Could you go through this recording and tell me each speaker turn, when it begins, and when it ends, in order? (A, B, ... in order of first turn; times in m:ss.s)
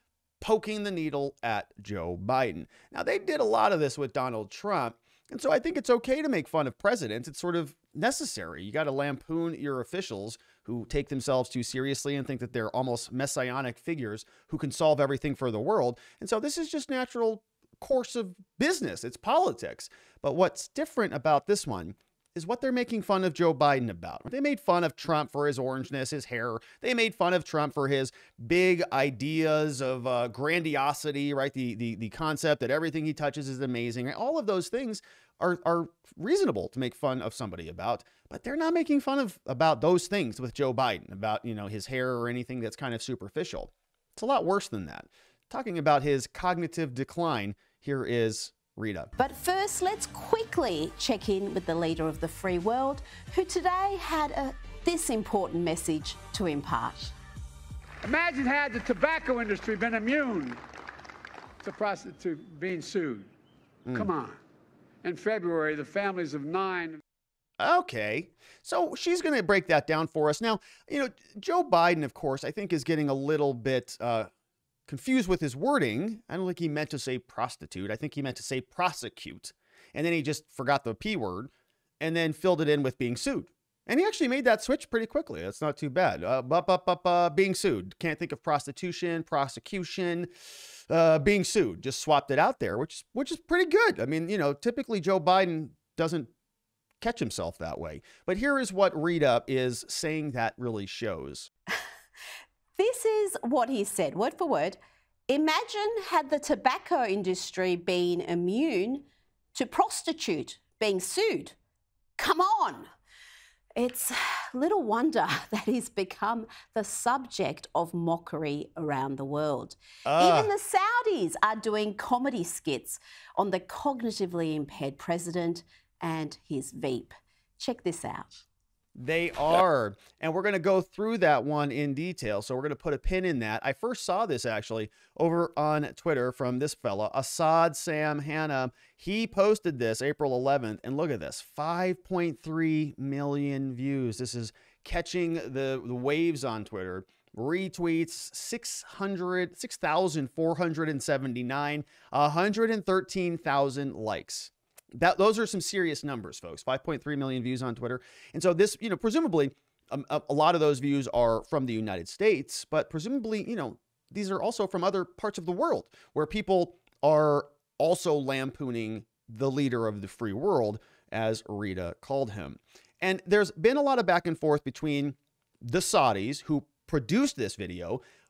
0:00.4-0:49.1 A
0:49.2-0:57.1 B
0:58.0-1:00.6 C
1:01.6-1:03.3 C
1:03.9-1:04.1 A
1:03.9-1:04.4 C
1:05.0-1:07.0 C
1:07.6-1:14.3 A
1:14.9-1:30.3 A
1:30.9-1:36.3 A
1:37.0-1:41.5 A
1:42.8-1:51.6 B
1:52.2-1:52.9 B
1:53.8-2:08.4 B
2:00.1-2:00.5 A
2:09.0-2:58.0 A